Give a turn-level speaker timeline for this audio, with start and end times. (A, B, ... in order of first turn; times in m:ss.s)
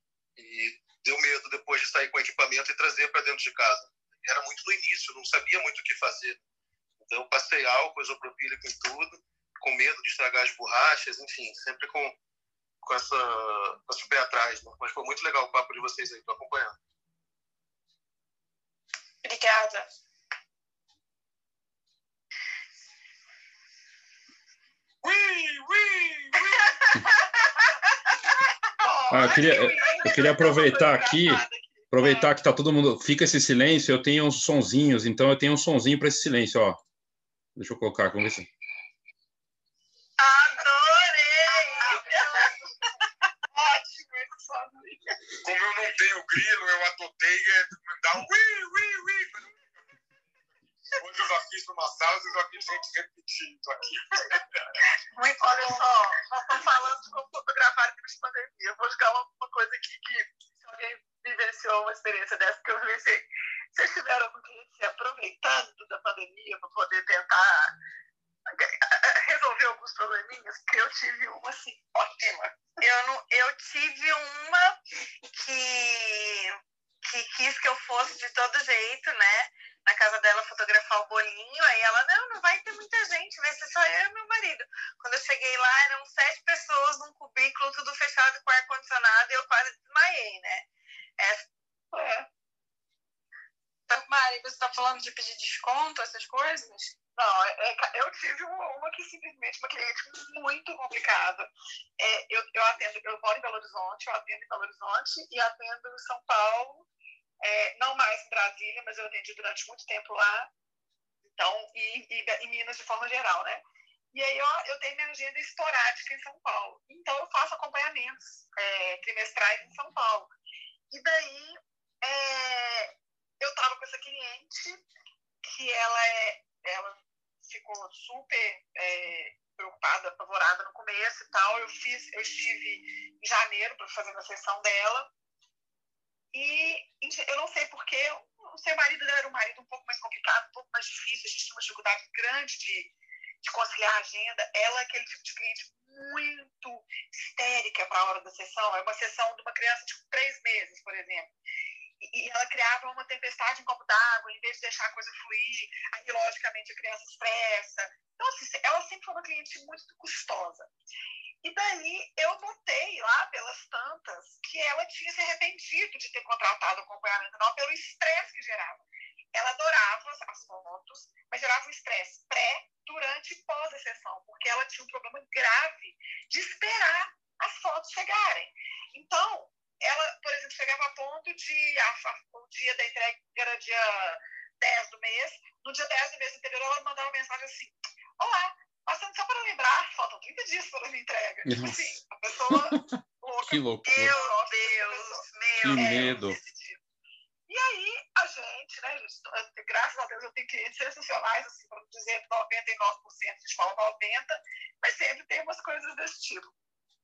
0:00.4-0:06.4 A
0:07.0-0:12.2 A
0:12.8-0:16.8 A
0:19.2-0:19.8 B
0:25.0-0:26.8 C
0:28.8-0:32.3 D
0:29.1-0:36.8 E
0:37.6-0:38.5 E
0:40.2-0:42.5 F
0:41.5-0:42.6 D
0:43.5-0:45.2 D
0:45.4-0:49.6 C
0:50.9-0:54.6 C
0:55.2-0:56.3 F
0:55.4-1:07.7 D
1:08.5-1:12.6 D
1:12.8-1:31.5 F
1:31.9-1:32.3 D
1:33.9-1:36.9 B
1:37.2-1:41.5 D
1:42.0-1:46.9 D
1:47.4-1:50.5 D
1:51.2-1:53.6 D
1:54.1-2:00.3 D
2:00.9-2:04.8 D
2:05.4-2:15.1 D
2:16.3-2:31.3 D
2:32.0-2:40.7 D
2:41.4-3:16.8 D
3:11.4-3:12.0 E
3:12.5-3:14.2 E
3:13.8-3:16.7 F
3:15.6-3:16.4 E
3:17.5-3:26.5 D